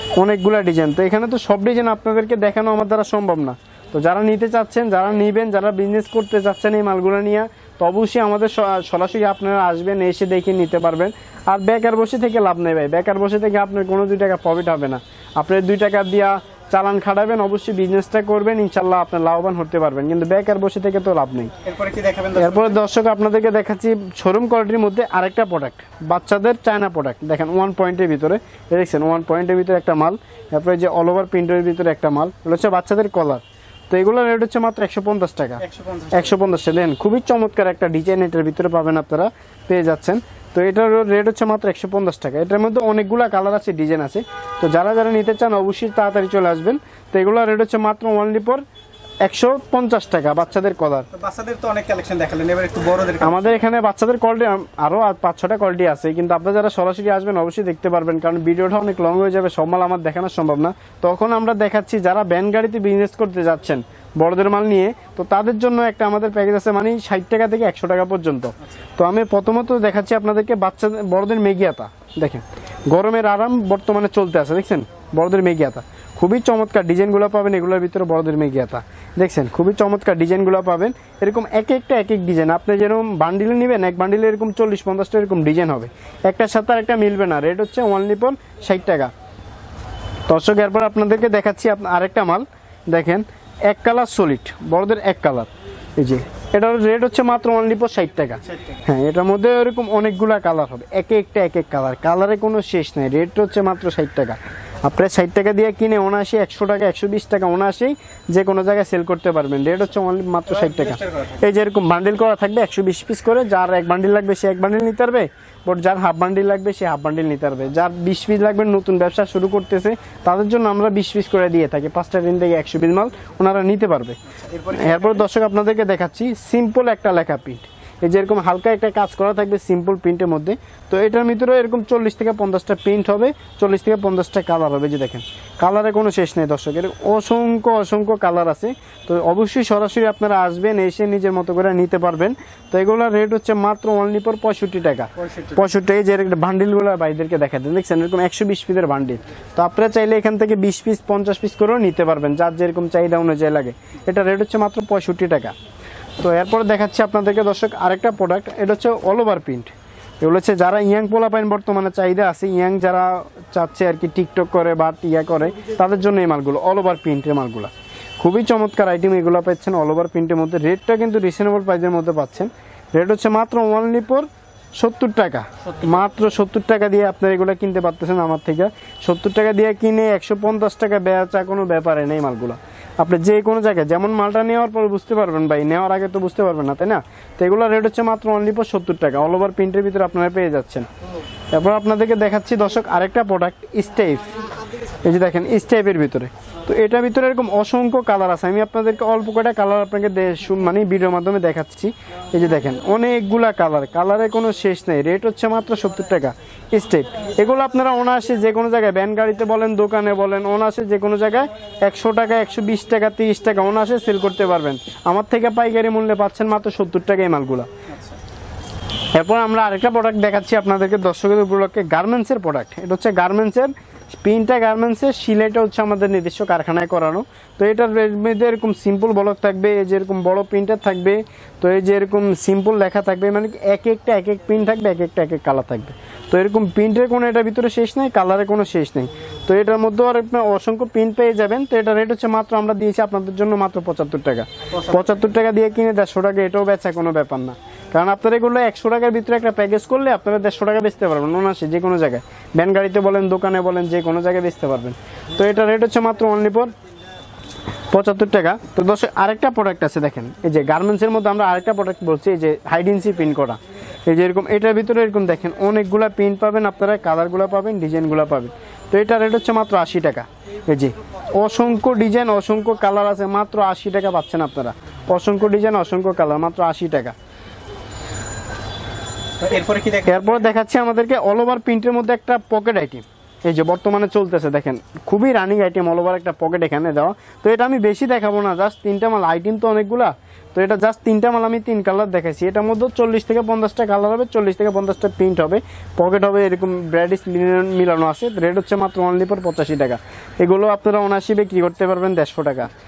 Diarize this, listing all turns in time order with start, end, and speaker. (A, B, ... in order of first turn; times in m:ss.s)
0:00.2-0:21.5 A
0:21.6-0:22.8 B
0:22.4-0:48.6 A
0:35.6-0:36.4 B
0:49.2-0:51.1 A
0:51.1-0:53.6 B
0:53.2-1:29.1 A
1:30.3-2:04.2 A
1:50.5-1:51.4 B
2:04.4-2:05.2 B
2:04.7-2:35.5 A
2:25.2-2:25.6 B
2:36.2-2:54.3 A
2:54.8-3:10.9 A
3:11.5-3:14.3 A
3:15.0-3:37.7 A
3:37.9-3:38.2 B
3:39.1-4:16.7 A
4:17.9-4:37.2 A
4:39.4-4:40.4 B
4:40.1-5:02.7 A